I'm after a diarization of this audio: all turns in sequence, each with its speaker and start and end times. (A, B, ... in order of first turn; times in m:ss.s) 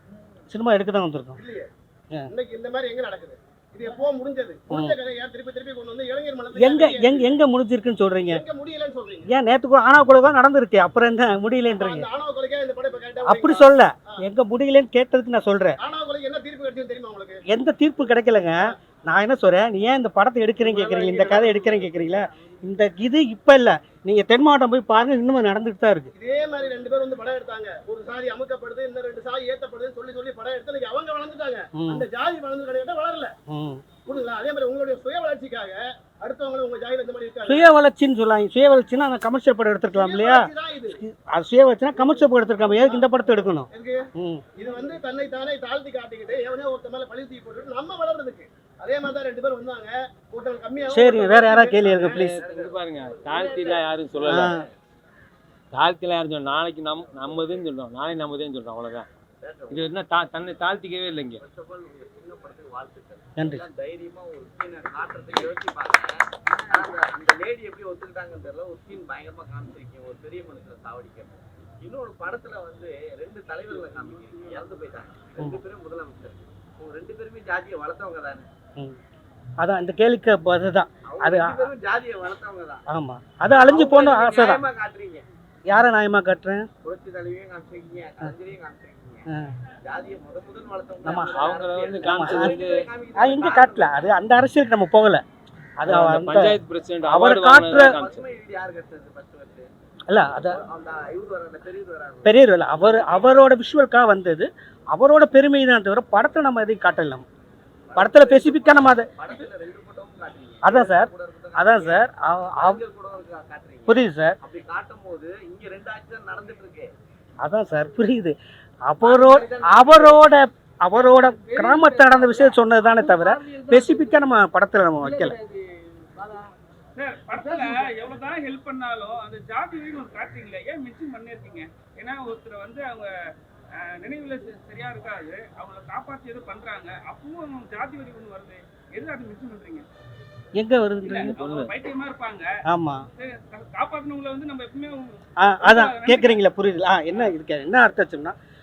0:00.5-0:01.4 A
0:01.4-0:01.7 B
0:02.3-0:07.3 B
0:04.7-0:05.0 A
0:06.6-0:08.4 A
0:08.3-0:09.3 B
0:09.3-0:12.1 A
0:11.8-0:13.8 B
0:13.2-0:15.8 A
0:15.8-0:17.4 B
0:17.5-0:26.1 A
0:21.0-0:21.3 B
0:26.2-0:33.3 B
0:31.8-0:32.1 A
0:33.5-0:33.8 A
0:34.1-0:37.7 B
0:37.5-0:44.4 A
0:39.9-0:41.0 B
0:42.8-0:43.0 B
0:43.7-0:52.3 B
0:50.9-0:52.4 A
0:52.2-0:54.6 C
0:52.4-0:54.5 D
0:54.3-0:54.6 A
0:55.7-0:59.1 D
0:59.4-1:00.0 C
0:59.7-1:01.4 D
1:01.0-1:18.5 C
1:03.4-1:03.7 A
1:19.6-1:21.7 A
1:21.1-1:22.8 C
1:22.9-1:24.6 A
1:23.5-1:25.3 C
1:25.7-1:26.7 A
1:26.8-1:29.3 C
1:29.8-1:34.2 C
1:31.0-1:31.4 A
1:31.4-1:32.8 D
1:32.1-1:32.6 A
1:33.2-1:35.2 A
1:35.8-1:38.0 A
1:35.9-1:38.2 D
1:37.5-1:39.7 C
1:40.1-1:40.6 A
1:40.3-1:42.4 C
1:42.2-1:47.3 A
1:47.9-1:52.0 C
1:48.0-1:49.1 A
1:50.6-1:52.8 A
1:52.6-1:56.9 C
1:53.9-1:54.4 A
1:57.4-1:58.4 A
1:58.9-2:05.4 A
1:59.0-2:00.3 C
2:07.0-2:13.1 E
2:13.9-2:19.9 E
2:20.6-2:21.6 A
2:21.0-2:22.5 E
2:22.7-2:23.1 A
2:23.2-2:26.4 E
2:25.4-2:28.4 A